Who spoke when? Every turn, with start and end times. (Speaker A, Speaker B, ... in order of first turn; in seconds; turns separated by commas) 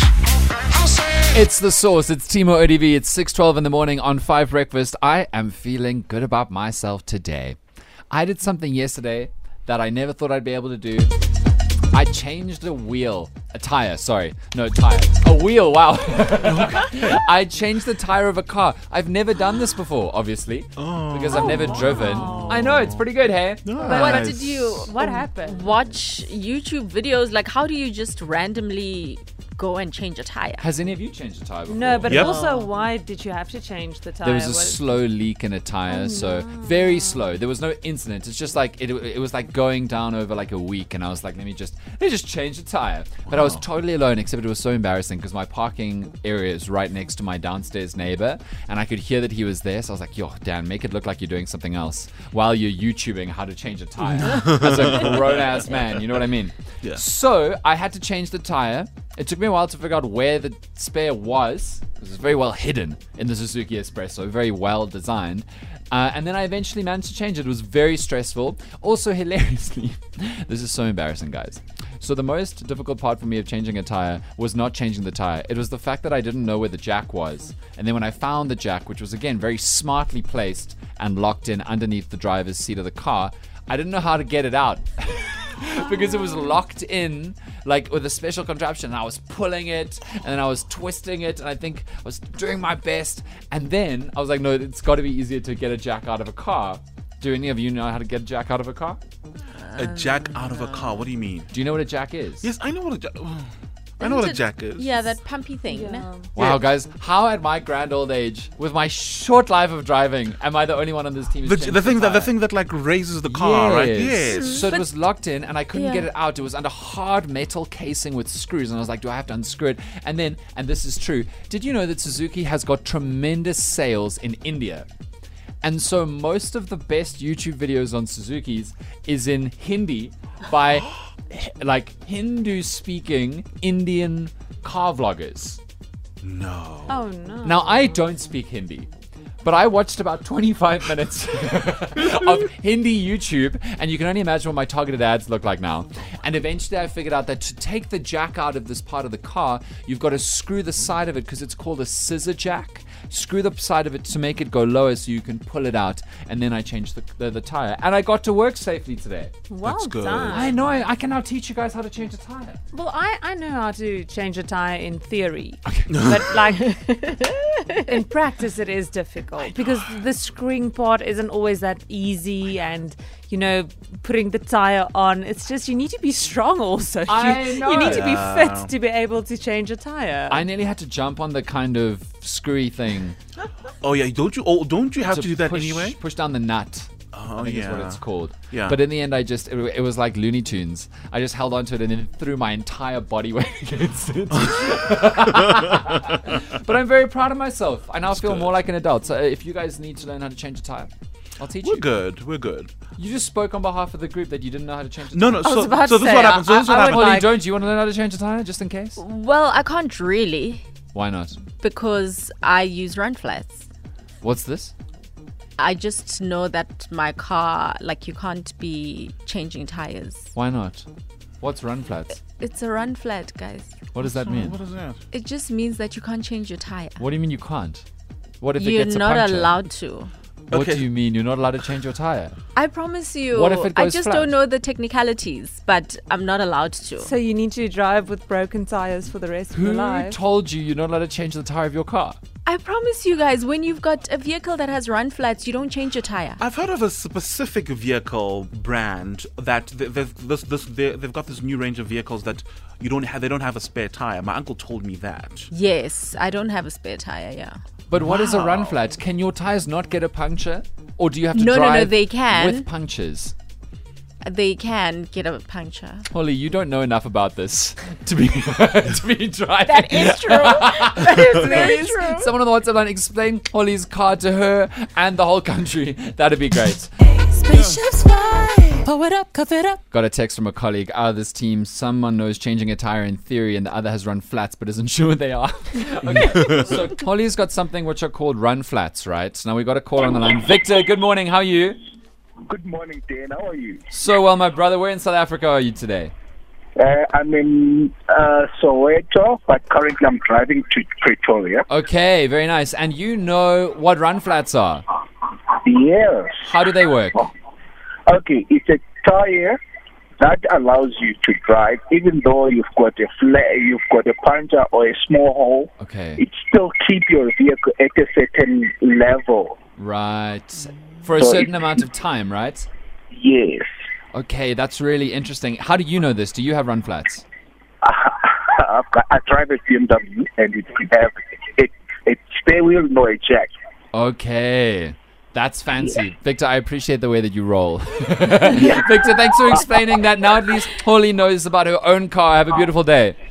Speaker A: 1.3-7.6, Speaker A: 8.1-11.1, Speaker A: 11.9-24.9, Speaker B: 16.4-17.2, Speaker B: 20.8-23.1, Speaker B: 23.6-24.8, Speaker C: 23.8-24.2, Speaker D: 23.9-30.7, Speaker C: 24.8-25.8, Speaker A: 30.6-32.4, Speaker C: 31.7-35.0, Speaker B: 32.1-32.6, Speaker A: 34.2-99.0, Speaker C: 35.9-37.3, Speaker B: 43.3-43.6, Speaker B: 54.2-55.2, Speaker D: 99.7-101.0, Speaker B: 99.7-101.5, Speaker A: 101.5-102.5, Speaker B: 102.4-105.2, Speaker D: 104.0-106.1, Speaker C: 105.7-106.3, Speaker A: 106.4-112.3, Speaker B: 106.4-106.6, Speaker B: 111.5-114.7, Speaker A: 113.3-124.9, Speaker D: 114.3-114.8, Speaker D: 115.7-116.1, Speaker A: 125.6-135.6, Speaker B: 136.2-137.0, Speaker C: 136.9-138.1, Speaker A: 137.4-138.9, Speaker A: 139.4-159.3, Speaker C: 159.5-160.8, Speaker B: 159.6-160.5, Speaker A: 160.3-162.6, Speaker C: 162.7-180.4, Speaker A: 165.7-166.1, Speaker B: 165.9-166.2, Speaker A: 169.4-170.0, Speaker A: 177.1-178.2, Speaker B: 177.8-178.7, Speaker A: 180.3-183.2, Speaker B: 183.8-186.0, Speaker A: 185.1-201.9, Speaker B: 187.1-188.8, Speaker B: 198.1-198.6, Speaker B: 201.6-202.7, Speaker A: 203.0-205.6, Speaker B: 205.1-207.3, Speaker D: 205.4-207.2, Speaker A: 206.5-209.0, Speaker D: 209.0-210.6, Speaker A: 210.9-211.4, Speaker D: 211.6-213.6, Speaker A: 214.2-214.7, Speaker D: 215.6-220.3, Speaker A: 220.3-220.9, Speaker A: 221.4-222.2, Speaker D: 222.3-223.9, Speaker A: 223.9-224.6, Speaker B: 224.0-225.0, Speaker D: 225.1-227.1, Speaker A: 227.0-227.8, Speaker A: 228.4-229.6, Speaker D: 228.6-230.1, Speaker B: 230.5-230.9, Speaker A: 230.5-232.3, Speaker D: 232.6-237.1, Speaker A: 233.3-234.3, Speaker C: 237.0-240.2, Speaker A: 239.5-242.2, Speaker D: 242.5-246.4, Speaker B: 246.4-255.5, Speaker D: 255.5-257.6, Speaker A: 257.9-263.4, Speaker B: 258.0-258.8, Speaker D: 261.3-262.6, Speaker D: 264.2-266.1, Speaker A: 266.1-276.9, Speaker D: 269.7-272.3, Speaker C: 277.3-279.8, Speaker D: 277.4-278.9, Speaker A: 279.9-291.8, Speaker E: 292.5-293.8, Speaker A: 293.9-296.1, Speaker E: 296.8-301.6, Speaker A: 301.7-304.9, Speaker E: 305.6-306.4, Speaker A: 306.4-307.3, Speaker E: 308.1-309.6, Speaker E: 310.2-319.5, Speaker A: 315.8-316.2, Speaker A: 319.8-322.7, Speaker E: 321.2-321.5, Speaker E: 323.1-323.7, Speaker A: 324.1-327.2, Speaker E: 327.8-333.5, Speaker A: 333.9-343.2, Speaker E: 338.5-339.0